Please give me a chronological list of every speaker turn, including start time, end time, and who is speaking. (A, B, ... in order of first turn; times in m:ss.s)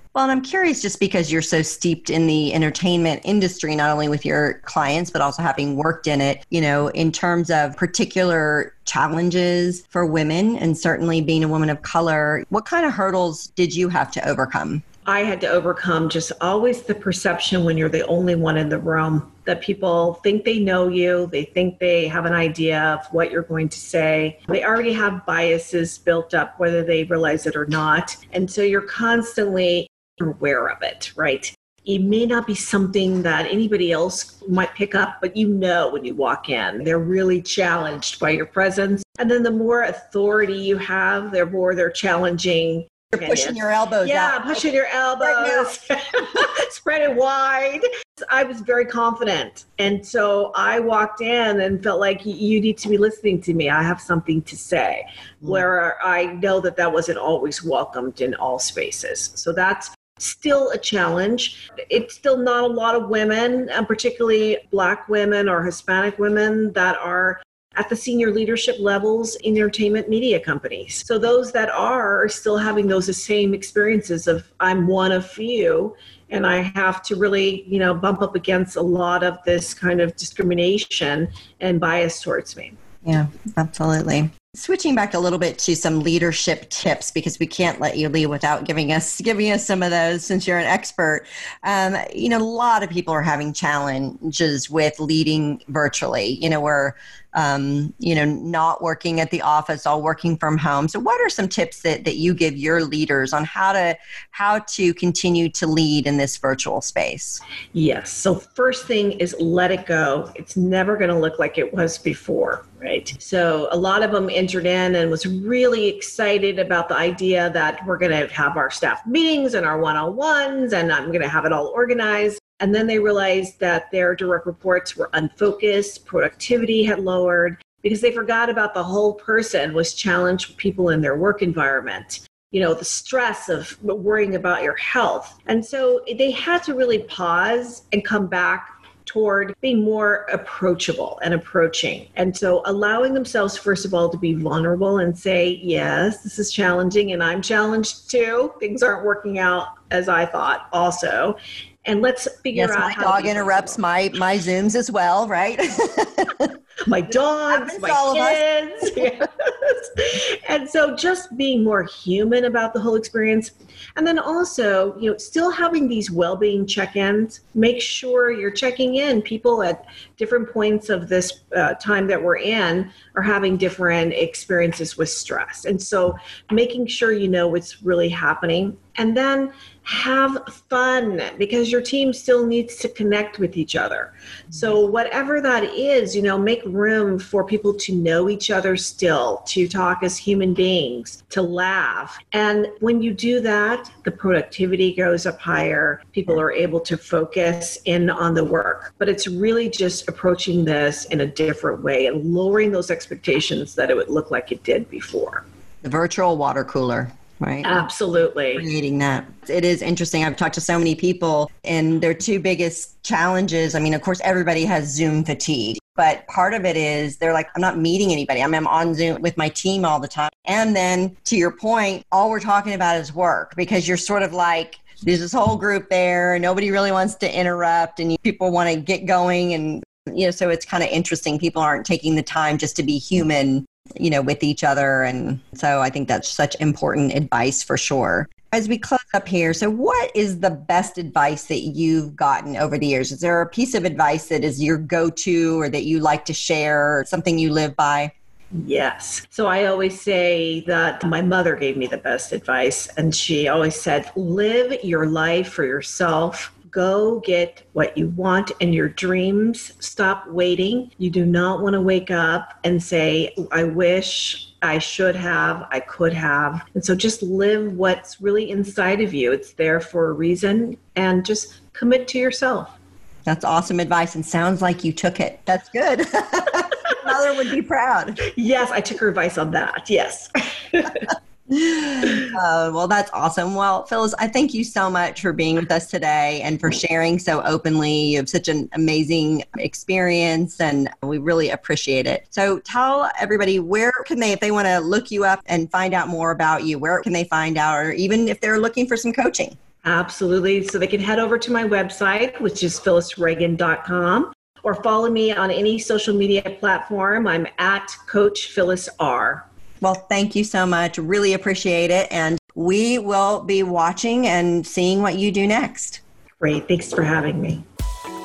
0:00.1-0:14.8 A
0:15.1-1:22.8 B
0:43.1-0:44.5 A
0:45.2-0:45.7 A
1:23.0-1:47.4 A
1:47.7-2:33.8 B
2:32.5-2:36.5 A
2:36.9-3:25.4 B
2:37.5-2:38.4 A
3:25.8-3:27.8 A
3:27.6-3:28.7 B
3:28.6-4:08.1 A
4:08.5-4:32.7 B
4:33.3-4:38.2 A
4:38.3-4:41.1 B
4:41.5-4:59.6 A
4:59.8-5:09.4 B
5:09.8-5:16.0 A
5:16.4-5:17.6 B